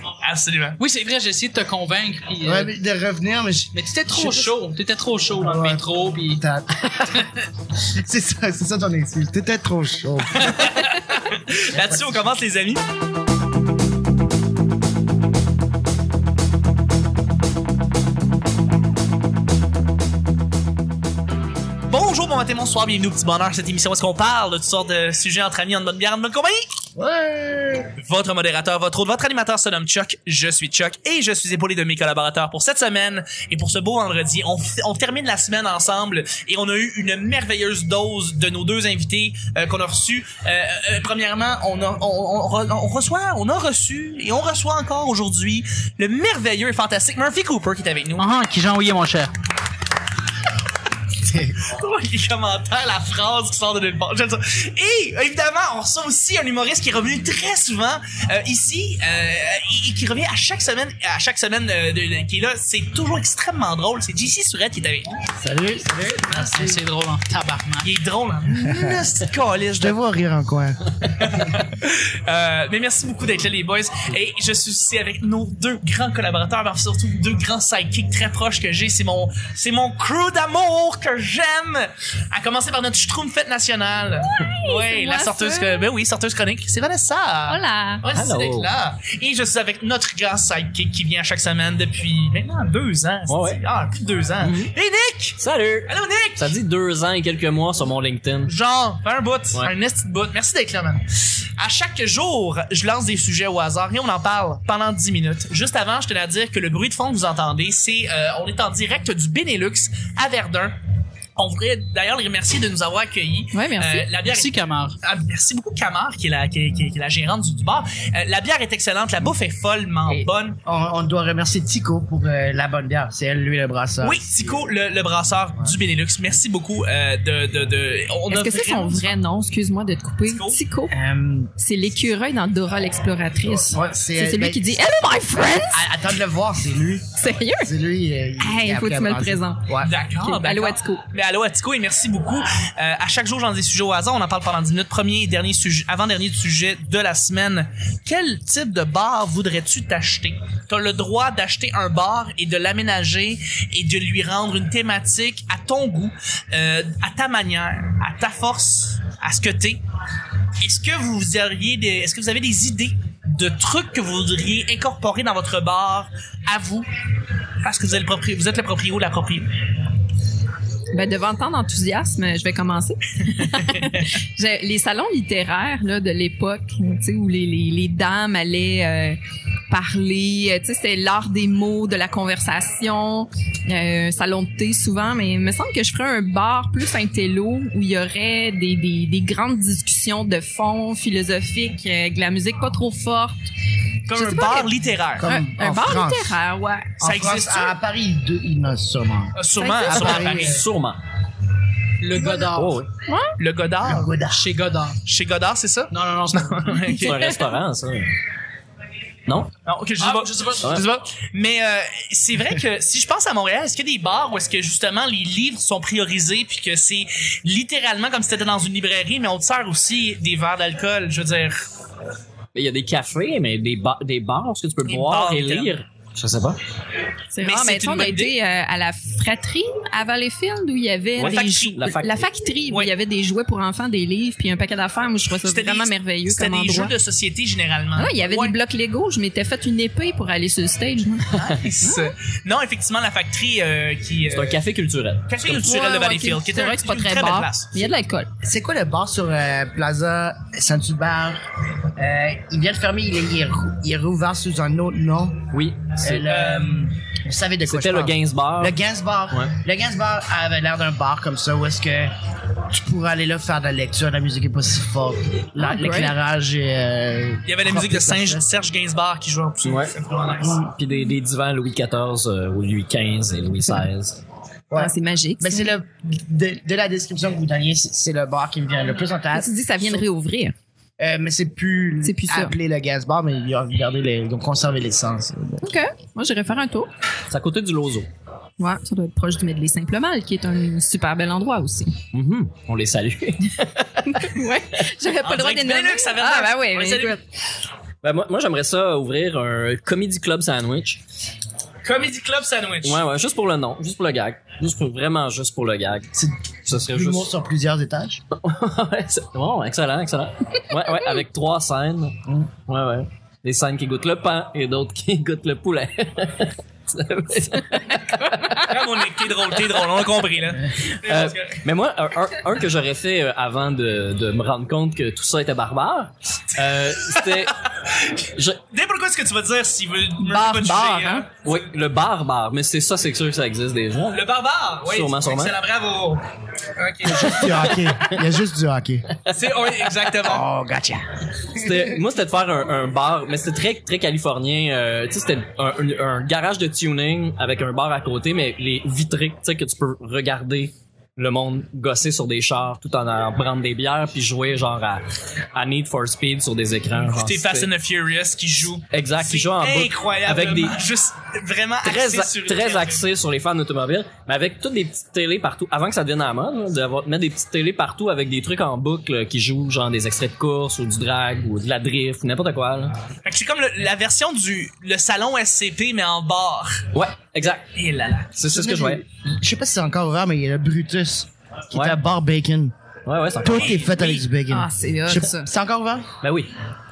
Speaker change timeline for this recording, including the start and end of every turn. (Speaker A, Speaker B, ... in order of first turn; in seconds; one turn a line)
Speaker A: 0.2-0.8
Speaker B: 0.8-2.7
Speaker C: 2.4-4.5
Speaker B: 3.7-6.4
Speaker C: 5.4-7.2
Speaker C: 7.9-10.7
Speaker A: 10.3-12.8
Speaker C: 11.7-12.2
Speaker A: 21.9-26.6
Speaker C: 27.0-27.9
Speaker A: 28.0-48.3
Speaker B: 48.2-49.3
Speaker A: 51.4-65.2
Speaker C: 65.4-66.8
Speaker B: 66.2-67.9
Speaker A: 67.8-70.0
Speaker C: 68.6-69.0
Speaker C: 69.8-70.8
Speaker A: 71.2-96.5
Speaker D: 84.3-85.9
Speaker D: 87.5-88.0
Speaker E: 88.1-88.7
Speaker E: 93.3-93.6
Speaker E: 94.4-94.7
Speaker E: 95.4-98.5
Speaker A: 98.5-101.0
Speaker A: 101.6-110.8
Speaker A: 111.4-120.6
Speaker D: 113.5-114.1
Speaker B: 114.2-115.0
Speaker C: 120.1-124.5
Speaker A: 124.0-129.1
Speaker D: 128.3-130.9
Speaker A: 130.3-130.6
Speaker C: 130.9-131.5
Speaker D: 131.6-135.9
Speaker C: 133.4-134.7
Speaker C: 135.7-137.1
Speaker D: 137.2-137.7
Speaker C: 137.6-139.9
Speaker D: 138.4-141.0
Speaker A: 139.8-159.8
Speaker A: 160.6-166.9
Speaker A: 167.6-169.5
Speaker D: 170.9-179.2
Speaker A: 173.5-173.9
Speaker D: 179.7-193.4
Speaker A: 194.1-195.3
Speaker D: 194.1-197.0
Speaker C: 195.2-196.4
Speaker C: 197.0-200.7
Speaker A: 197.0-197.8
Speaker A: 199.3-200.6
Speaker D: 199.6-200.0
Speaker E: 200.0-201.0
Speaker B: 202.0-202.8
Speaker E: 202.4-202.9
Speaker D: 203.1-203.3
Speaker A: 203.4-204.1
Speaker C: 203.8-204.5
Speaker B: 204.3-205.0
Speaker A: 205.1-207.4
Speaker B: 205.9-207.1
Speaker E: 207.0-208.1
Speaker D: 207.1-207.4
Speaker A: 209.7-221.6
Speaker B: 210.0-210.8
Speaker E: 222.6-226.6
Speaker A: 224.9-225.8
Speaker D: 227.3-236.9
Speaker A: 227.4-228.4
Speaker A: 231.2-231.8
Speaker E: 231.2-232.3
Speaker A: 235.4-238.6
Speaker D: 238.0-242.1
Speaker A: 241.4-244.6
Speaker E: 244.3-245.3
Speaker A: 245.3-247.8
Speaker D: 245.4-248.3
Speaker C: 248.4-251.4
Speaker C: 252.0-262.1
Speaker E: 255.5-256.2
Speaker A: 256.2-256.9
Speaker E: 257.7-258.8
Speaker C: 262.7-268.5
Speaker D: 265.6-266.1
Speaker A: 267.5-270.6
Speaker E: 269.6-269.9
Speaker C: 270.4-270.7
Speaker E: 270.6-274.2
Speaker C: 274.7-280.1
Speaker D: 274.7-275.7
Speaker D: 279.3-280.6
Speaker C: 281.0-285.7
Speaker D: 282.0-282.5
Speaker D: 285.6-286.9
Speaker E: 287.3-288.1
Speaker D: 288.6-292.0
Speaker E: 292.1-294.4
Speaker D: 294.1-297.2
Speaker A: 295.2-297.2
Speaker E: 298.0-301.0
Speaker A: 301.8-303.0
Speaker E: 302.8-306.1
Speaker C: 306.1-308.2
Speaker E: 306.7-307.3
Speaker E: 308.4-318.7
Speaker A: 318.6-321.6
Speaker E: 321.0-327.6
Speaker A: 326.7-331.5
Speaker E: 328.4-328.6
Speaker C: 330.3-331.2
Speaker E: 331.3-334.2
Speaker A: 334.1-336.2
Speaker E: 334.9-335.6
Speaker A: 336.8-337.7
Speaker E: 337.1-338.1
Speaker C: 337.2-339.1
Speaker A: 339.3-340.4
Speaker C: 340.2-341.1
Speaker E: 341.5-357.7
Speaker A: 357.1-363.0
Speaker E: 358.9-360.8
Speaker E: 361.8-372.9
Speaker A: 373.2-376.9
Speaker E: 376.9-377.7
Speaker A: 377.7-378.4
Speaker E: 378.4-379.0
Speaker C: 378.5-382.7
Speaker E: 381.7-382.0
Speaker E: 383.1-383.8
Speaker C: 383.4-386.1
Speaker A: 383.5-384.3
Speaker D: 384.5-385.5
Speaker E: 386.2-386.5